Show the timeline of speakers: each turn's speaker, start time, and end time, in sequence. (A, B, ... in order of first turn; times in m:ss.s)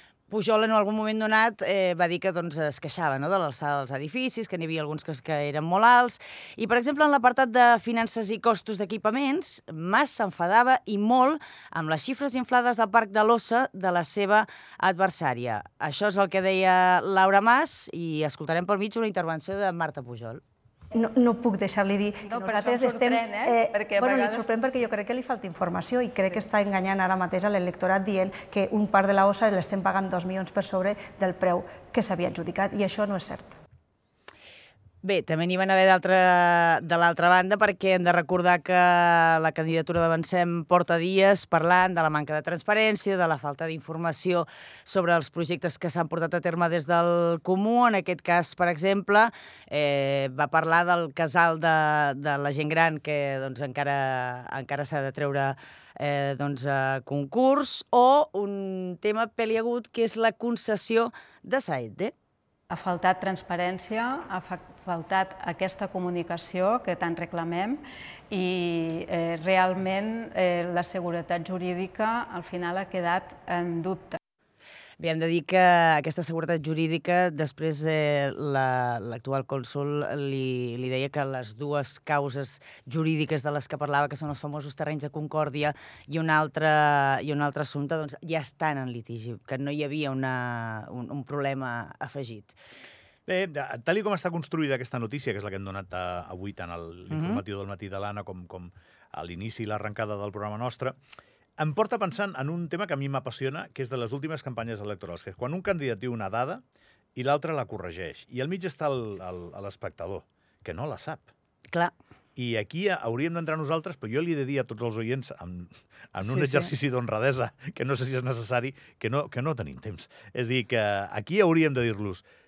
0:00.3-0:20.4 A
0:21.0-0:33.6 B
0:22.3-0:24.7 C
0:35.0-1:02.1 A
1:02.7-1:07.8 C
1:08.3-1:14.2 C
1:15.0-1:32.6 A
1:33.3-1:41.0 D
1:37.1-1:37.4 A
1:41.6-1:46.6 D
1:47.2-1:51.3 D
1:52.4-2:02.2 D
1:56.2-1:56.7 A